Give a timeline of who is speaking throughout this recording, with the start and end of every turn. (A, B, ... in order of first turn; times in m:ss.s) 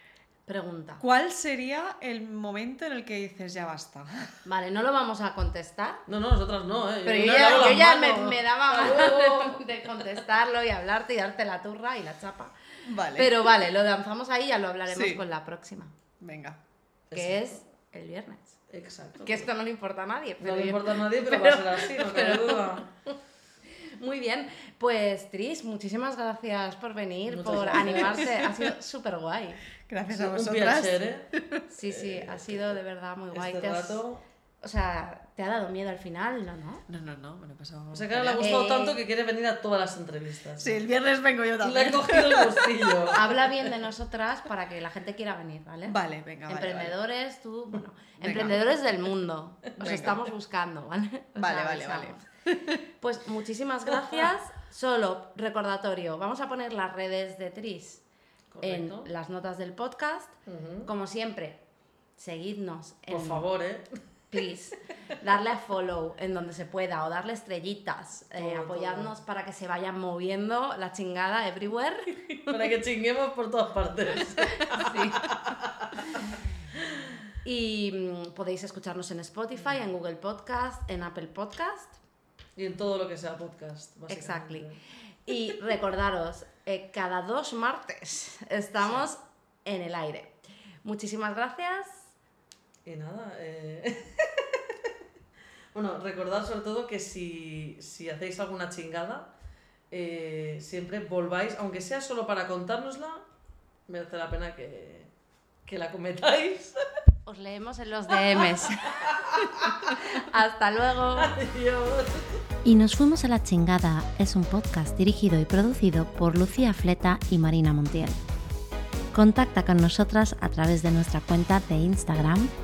0:00.5-0:01.0 A
0:01.0-0:04.4 B
0:04.4-0:06.0 A
0:06.1-0:09.6 C
0:07.0-0:12.5 A
0:07.1-0:08.4 B
0:12.8-0:13.6 B
0:13.1-0:15.9 A
0:14.9-0:15.2 B
0:16.2-0:16.6 B
0:17.1-0:17.5 C
0:17.1-0:18.6 A
0:18.7-0:19.5 C
0:19.2-0:22.8 A
0:20.4-0:22.9 C
0:24.0-0:29.6 A
0:27.3-0:28.4 C
0:27.9-0:28.5 B
0:29.9-0:31.6 B
0:30.1-0:31.3 C
0:31.7-0:34.0 A
0:31.8-0:32.8 C
0:33.3-0:34.2 C
0:34.6-0:36.8 A
0:36.9-0:38.4 B
0:37.9-0:40.8 C
0:38.4-0:39.0 A
0:40.6-0:43.5 B
0:41.6-0:43.3 C
0:43.1-0:46.0 A
0:45.9-0:47.0 B
0:46.5-0:52.2 A
0:48.2-0:48.6 B
0:49.8-0:50.2 B
0:51.4-0:52.8 B
0:53.0-0:58.0 A
0:58.5-0:59.1 C
0:58.6-1:00.3 A
1:00.4-1:00.9 C
1:00.8-1:01.6 A
1:02.2-1:03.4 A
1:03.1-1:03.9 C
1:04.3-1:12.7 A
1:08.4-1:09.1 C
1:12.4-1:16.0 C
1:14.5-1:15.3 A
1:17.4-1:22.0 A
1:22.6-1:24.8 C
1:24.1-1:24.7 A
1:25.3-1:32.1 A
1:32.8-1:34.7 C
1:35.7-1:39.3 C
1:39.9-1:43.2 C
1:43.9-1:45.1 C
1:45.6-1:46.8 C
1:47.2-1:49.1 A
1:48.3-1:49.9 C
1:49.9-1:51.3 A
1:51.2-1:52.3 C
1:52.6-1:58.2 D
1:59.1-2:02.5 D